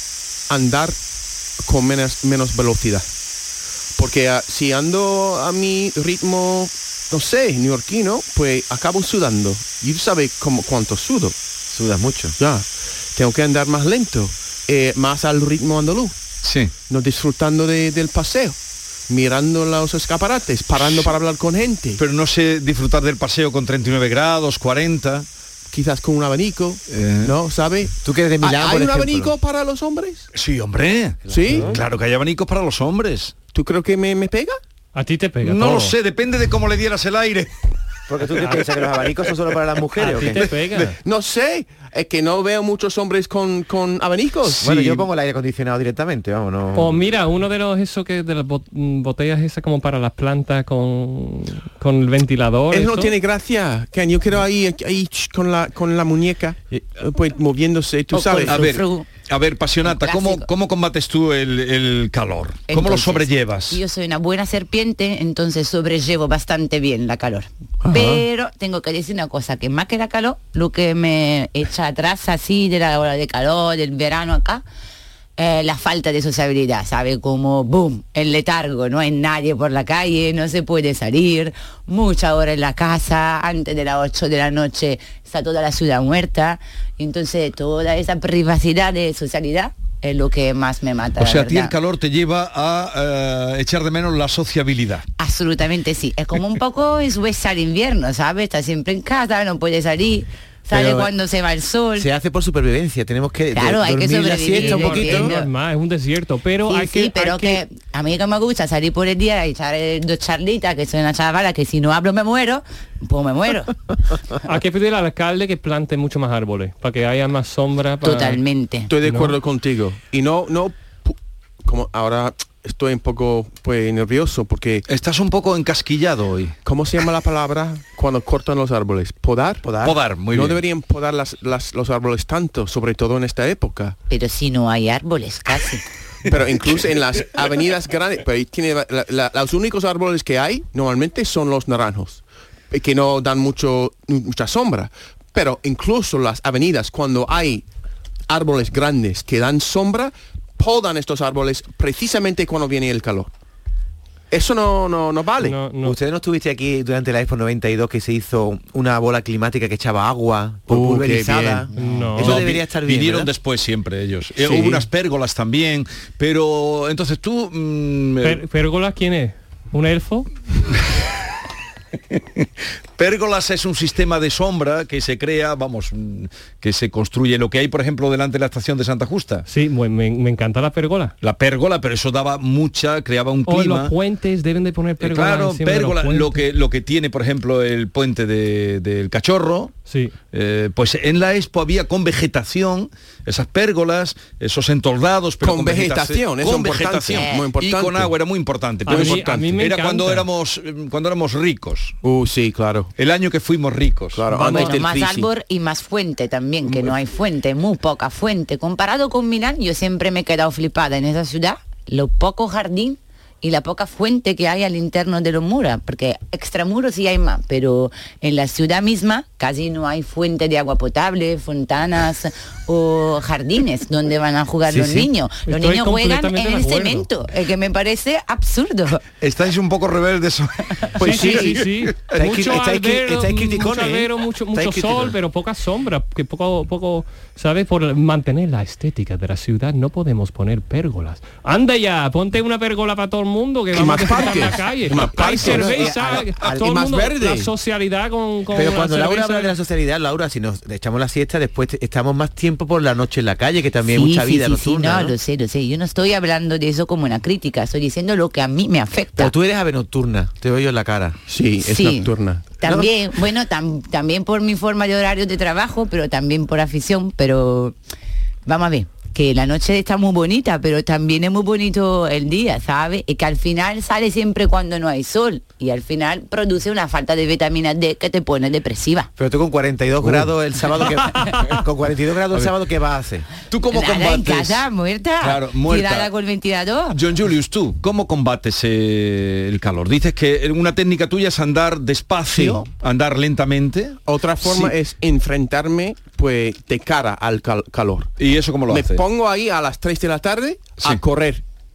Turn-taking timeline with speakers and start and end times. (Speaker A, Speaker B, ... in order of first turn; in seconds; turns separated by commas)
Speaker A: 0.5-1.0, Speaker A: 1.6-3.0, Speaker A: 4.0-11.3, Speaker B: 11.7-12.3, Speaker A: 12.4-16.2, Speaker C: 16.4-16.7, Speaker A: 16.9-18.6, Speaker A: 19.1-22.0, Speaker C: 20.8-21.1, Speaker C: 22.0-25.3, Speaker A: 25.7-30.3, Speaker C: 26.9-27.3, Speaker B: 28.0-29.3, Speaker C: 30.3-33.4, Speaker A: 31.3-31.8, Speaker B: 31.5-31.8, Speaker A: 33.5-34.6, Speaker D: 34.9-35.9, Speaker C: 35.4-37.5, Speaker B: 38.1-40.5, Speaker D: 40.0-41.0, Speaker A: 41.0-45.0, Speaker B: 44.6-47.0, Speaker D: 46.7-53.1, Speaker A: 52.7-58.7, Speaker E: 58.1-59.1, Speaker C: 58.5-63.8, Speaker E: 59.9-60.5, Speaker E: 62.7-74.6, Speaker A: 67.8-68.2, Speaker E: 75.4-91.7, Speaker C: 91.2-95.0, Speaker E: 95.2-102.1, Speaker B: 100.7-101.1, Speaker B: 102.0-105.4, Speaker E: 103.5-105.5, Speaker D: 104.5-107.6, Speaker E: 106.7-114.0, Speaker D: 114.4-118.4, Speaker E: 118.0-118.9, Speaker A: 118.9-124.8, Speaker D: 119.0-119.3, Speaker C: 124.9-126.5, Speaker A: 126.6-133.9, Speaker C: 129.8-130.6, Speaker E: 134.1-135.8, Speaker A: 136.3-147.6, Speaker A: 148.3-153.3, Speaker A: 154.3-155.6, Speaker D: 155.4-156.0, Speaker B: 155.8-163.3, Speaker A: 160.7-161.7, Speaker D: 161.7-162.4, Speaker C: 162.2-168.4, Speaker A: 164.3-164.8, Speaker D: 168.2-170.3, Speaker C: 172.1-179.4, Speaker D: 179.5-181.1, Speaker C: 181.2-183.9, Speaker D: 183.4-186.4, Speaker C: 185.0-189.7, Speaker D: 189.9-190.1, Speaker C: 190.3-201.9, Speaker A: 195.4-198.2, Speaker E: 197.1-197.5, Speaker A: 198.8-199.6, Speaker D: 198.8-200.3, Speaker A: 202.0-202.9, Speaker C: 202.9-204.7, Speaker A: 204.1-205.3, Speaker E: 204.3-229.0, Speaker B: 224.7-225.1, Speaker D: 225.4-227.1, Speaker C: 229.2-231.4, Speaker D: 231.0-249.5, Speaker A: 231.0-231.4, Speaker B: 232.1-235.1, Speaker A: 243.7-247.5, Speaker B: 245.1-246.7, Speaker B: 248.5-255.1, Speaker E: 253.9-259.3, Speaker B: 259.2-261.2, Speaker A: 261.3-262.5, Speaker E: 261.6-267.7, Speaker B: 262.6-262.9, Speaker E: 268.4-279.1, Speaker B: 279.2-283.2, Speaker C: 283.5-284.6, Speaker E: 283.7-287.0, Speaker C: 285.2-286.1, Speaker C: 286.9-294.7, Speaker A: 292.3-292.6, Speaker A: 294.1-298.2, Speaker C: 298.2-299.0, Speaker A: 298.7-301.4, Speaker C: 300.8-301.0